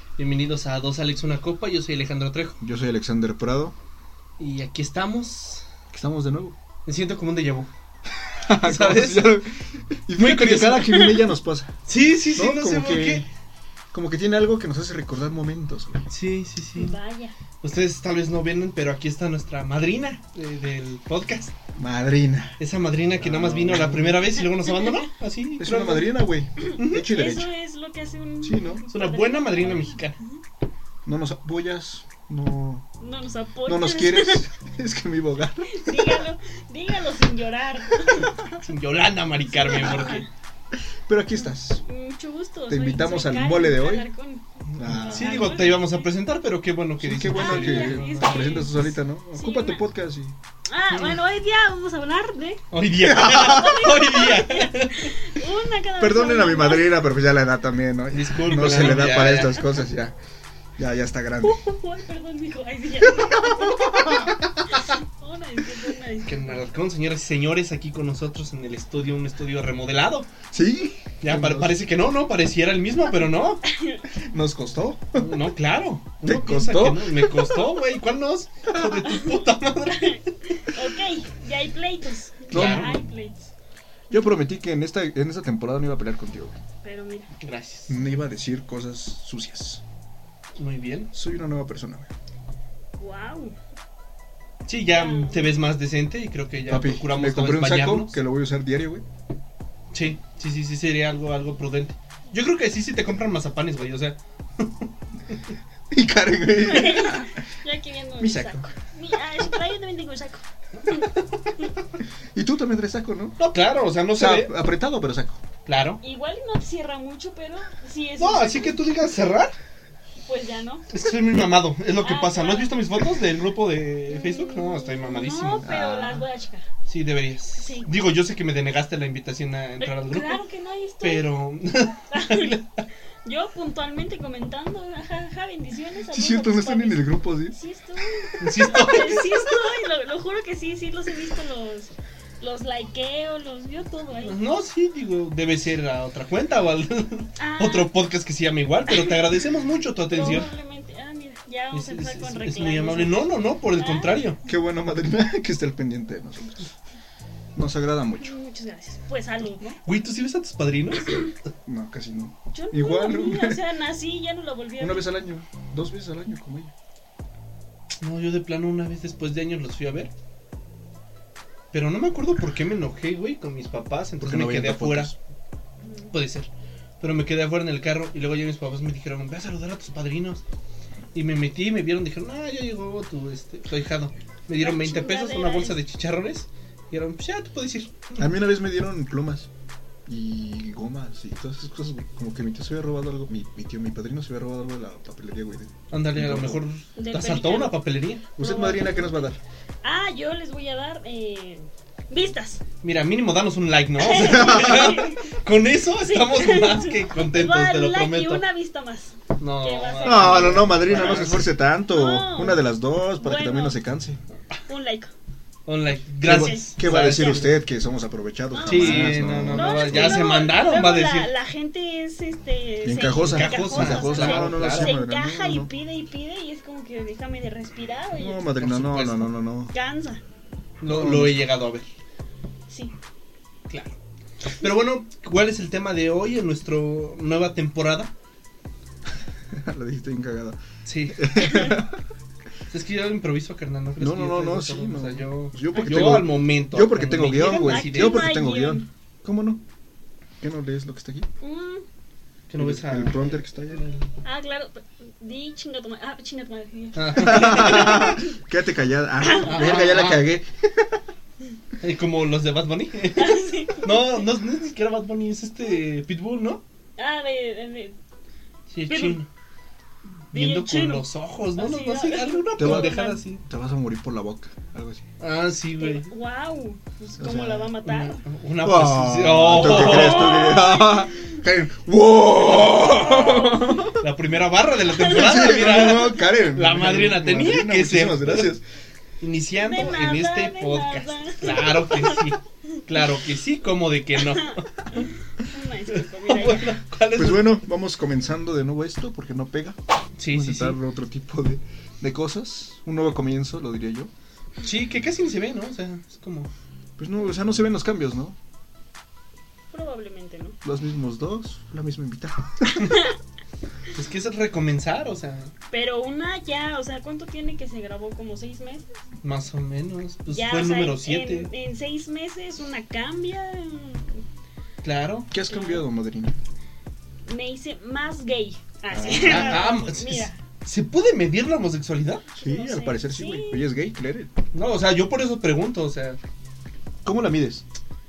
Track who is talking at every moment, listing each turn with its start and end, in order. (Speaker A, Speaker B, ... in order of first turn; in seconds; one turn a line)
Speaker A: 0.2-2.6
Speaker B: 2.6-3.8
Speaker A: 4.4-5.7
Speaker B: 5.9-6.6
Speaker A: 6.8-7.7
Speaker B: 8.2-11.8
Speaker A: 8.6-9.4
Speaker A: 10.2-11.0
Speaker C: 10.9-11.2
Speaker A: 11.9-13.3
Speaker B: 12.3-13.3
Speaker B: 13.9-16.1
Speaker A: 16.1-17.0
Speaker C: 16.8-17.4
Speaker A: 17.6-21.6
Speaker B: 21.8-22.6
Speaker A: 22.6-26.2
Speaker B: 23.2-24.3
Speaker C: 24.4-25.1
Speaker B: 25.6-27.5
Speaker C: 26.6-30.4
Speaker A: 26.8-27.1
Speaker B: 28.4-28.8
Speaker A: 28.9-30.2
Speaker B: 31.1-32.9
Speaker C: 33.0-34.5
Speaker B: 33.7-36.3
Speaker C: 35.7-38.4
Speaker B: 38.2-38.5
Speaker A: 38.6-40.2
Speaker C: 39.5-40.3
Speaker B: 39.8-40.1
Speaker B: 41.1-41.8
Speaker C: 41.8-46.1
Speaker B: 42.7-44.1
Speaker B: 44.7-45.7
Speaker A: 44.9-48.7
Speaker B: 47.0-50.4
Speaker C: 47.3-49.8
Speaker C: 50.7-52.6
Speaker A: 50.9-51.2
Speaker A: 52.7-55.1
Speaker B: 53.0-53.9
Speaker C: 53.2-57.0
Speaker B: 56.0-60.2
Speaker A: 58.1-59.7
Speaker B: 60.8-61.6
Speaker C: 61.4-66.6
Speaker B: 63.0-64.4
Speaker A: 66.2-70.3
Speaker B: 70.5-71.8
Speaker A: 71.2-73.6
Speaker C: 73.7-74.0
Speaker B: 74.2-75.3
Speaker A: 75.2-80.2
Speaker B: 76.2-77.6
Speaker C: 79.9-83.5
Speaker A: 82.5-83.0
Speaker B: 82.5-83.0
Speaker B: 84.1-86.6
Speaker C: 86.8-87.3
Speaker A: 87.4-88.0
Speaker B: 87.9-89.8
Speaker A: 90.6-91.1
Speaker B: 91.1-92.1
Speaker C: 93.0-93.5
Speaker A: 94.7-98.2
Speaker C: 94.9-95.5
Speaker B: 96.7-99.0
Speaker A: 99.9-105.5
Speaker B: 105.9-107.4
Speaker C: 106.6-111.1
Speaker B: 108.2-108.7
Speaker A: 110.8-111.5
Speaker B: 112.3-113.4
Speaker A: 113.4-114.5
Speaker B: 114.1-115.4
Speaker A: 115.7-116.0
Speaker C: 116.0-118.8
Speaker A: 118.2-119.5
Speaker C: 120.2-120.9
Speaker A: 120.9-125.7
Speaker C: 122.0-122.8
Speaker C: 124.1-126.7
Speaker B: 125.6-126.2
Speaker A: 126.9-130.4
Speaker C: 127.6-127.9
Speaker C: 129.8-131.3
Speaker A: 131.0-132.8
Speaker C: 132.1-132.6
Speaker C: 133.2-144.4
Speaker B: 136.1-137.6
Speaker A: 138.4-139.4
Speaker A: 144.2-150.5
Speaker C: 147.4-147.9
Speaker C: 148.9-149.2
Speaker C: 150.1-154.4
Speaker A: 151.7-154.4
Speaker B: 154.5-156.7
Speaker B: 157.6-158.3
Speaker C: 158.2-159.8
Speaker A: 159.8-161.4
Speaker B: 161.7-163.6
Speaker C: 162.5-165.2
Speaker B: 164.8-166.7
Speaker A: 168.0-170.1
Speaker A: 171.7-175.1
Speaker B: 174.2-175.2
Speaker C: 175.8-176.1
Speaker A: 176.1-176.5
Speaker A: 177.0-180.4
Speaker A: 181.1-188.2
Speaker C: 184.6-185.8
Speaker B: 188.2-189.5
Speaker B: 190.1-196.6
Speaker A: 195.9-198.3
Speaker C: 197.0-197.8
Speaker C: 198.4-199.0
Speaker B: 198.4-199.4
Speaker C: 199.8-202.6
Speaker A: 202.8-208.4
Speaker C: 204.0-205.4
Speaker B: 204.3-204.9
Speaker C: 206.1-211.3
Speaker A: 209.4-211.5
Speaker B: 210.0-214.2
Speaker C: 211.9-212.6
Speaker C: 213.2-213.8
Speaker C: 214.7-215.1
Speaker A: 215.7-217.5
Speaker B: 216.2-220.3
Speaker C: 216.3-217.1
Speaker C: 218.5-228.5
Speaker A: 218.7-221.3
Speaker B: 222.8-225.7
Speaker A: 223.2-225.0
Speaker B: 228.2-229.7
Speaker A: 228.6-229.3
Speaker C: 229.7-230.2
Speaker A: 230.8-231.9
Speaker B: 230.9-231.4
Speaker C: 232.7-232.9
Speaker A: 233.7-234.0
Speaker A: 234.6-238.1
Speaker B: 239.5-240.6
Speaker A: 240.9-241.3
Speaker B: 241.1-242.0
Speaker C: 241.4-241.8
Speaker A: 242.7-248.3
Speaker B: 244.0-249.6
Speaker C: 245.7-246.2
Speaker C: 247.6-248.9
Speaker B: 250.4-251.3
Speaker C: 251.4-251.9
Speaker A: 252.5-254.1
Speaker B: 252.6-253.9
Speaker C: 254.2-258.4
Speaker A: 257.0-258.0
Speaker B: 257.2-261.0
Speaker C: 259.2-259.8
Speaker A: 259.5-260.3
Speaker A: 261.8-266.6
Speaker C: 263.2-264.2
Speaker C: 267.0-268.0
Speaker A: 268.7-269.3
Speaker C: 268.9-269.2
Speaker A: 270.3-273.4
Speaker C: 270.3-273.2
Speaker B: 272.6-275.1
Speaker A: 275.2-276.1
Speaker C: 275.8-278.2
Speaker B: 277.2-277.7
Speaker A: 277.8-280.6
Speaker B: 278.6-284.0
Speaker C: 279.5-281.4
Speaker C: 282.8-283.9
Speaker A: 283.9-288.6
Speaker B: 284.9-288.6
Speaker C: 284.9-286.2
Speaker A: 289.2-295.1
Speaker C: 289.6-292.8
Speaker C: 294.2-296.8
Speaker A: 295.9-297.6
Speaker B: 297.1-299.8
Speaker A: 300.2-300.8
Speaker B: 300.3-304.1
Speaker A: 304.6-306.5
Speaker B: 307.0-308.4
Speaker C: 309.7-310.6
Speaker B: 310.6-312.9
Speaker C: 312.9-313.1
Speaker A: 313.9-315.5
Speaker C: 315.7-318.9
Speaker A: 319.2-321.5
Speaker C: 320.3-324.2
Speaker A: 324.8-325.3
Speaker B: 325.3-326.4
Speaker C: 325.5-325.8
Speaker C: 327.3-330.4
Speaker B: 328.9-329.8
Speaker A: 329.1-332.3
Speaker B: 332.3-334.3
Speaker C: 332.4-333.7
Speaker A: 334.5-336.2
Speaker B: 337.0-337.6